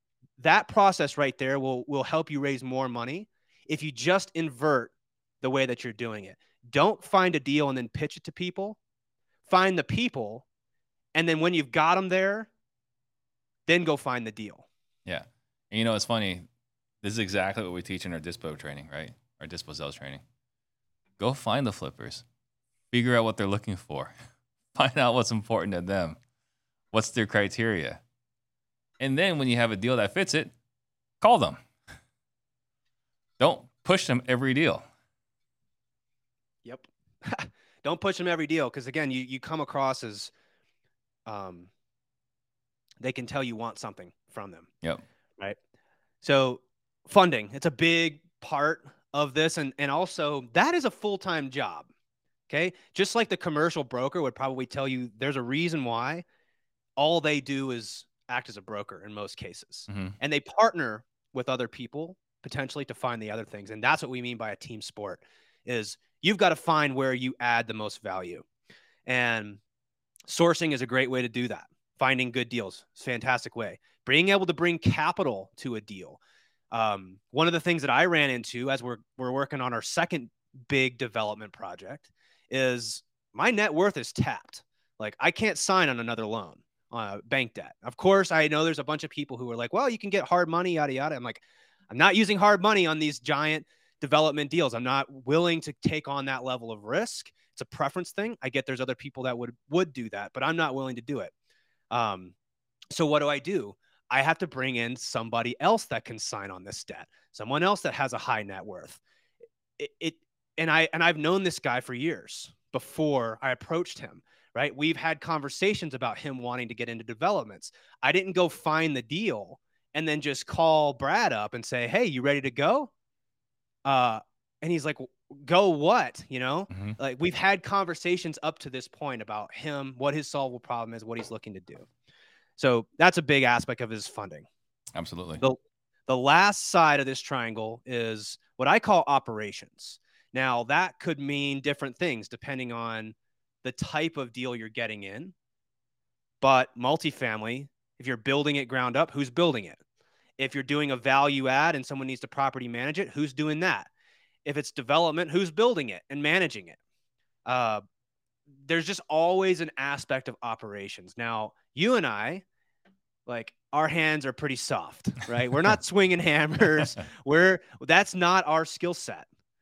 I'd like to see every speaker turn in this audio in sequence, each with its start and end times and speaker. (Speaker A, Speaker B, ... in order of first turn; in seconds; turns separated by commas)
Speaker A: 0.4-8.8, Speaker A: 9.5-10.4, Speaker A: 11.1-12.5, Speaker A: 13.7-14.7, Speaker B: 15.1-16.5, Speaker B: 17.0-20.2, Speaker B: 21.2-22.2, Speaker B: 22.9-24.1, Speaker B: 24.7-26.2, Speaker B: 26.9-28.0, Speaker B: 29.0-30.5, Speaker B: 31.2-31.6, Speaker B: 33.4-34.8, Speaker A: 36.6-40.3, Speaker A: 41.2-41.7, Speaker A: 43.0-44.7, Speaker A: 46.2-51.9, Speaker A: 52.5-56.2, Speaker A: 57.0-68.4, Speaker B: 59.9-60.1, Speaker A: 69.0-69.6, Speaker A: 70.3-101.3, Speaker A: 101.9-102.3, Speaker A: 102.9-109.0, Speaker A: 109.8-122.9, Speaker A: 123.8-131.9, Speaker B: 126.7-127.0, Speaker A: 132.6-134.5, Speaker B: 134.9-135.4, Speaker A: 135.4-145.3, Speaker A: 146.4-149.8, Speaker A: 150.4-153.9, Speaker A: 154.4-156.8, Speaker A: 157.4-157.8, Speaker A: 158.6-162.4, Speaker A: 163.2-169.3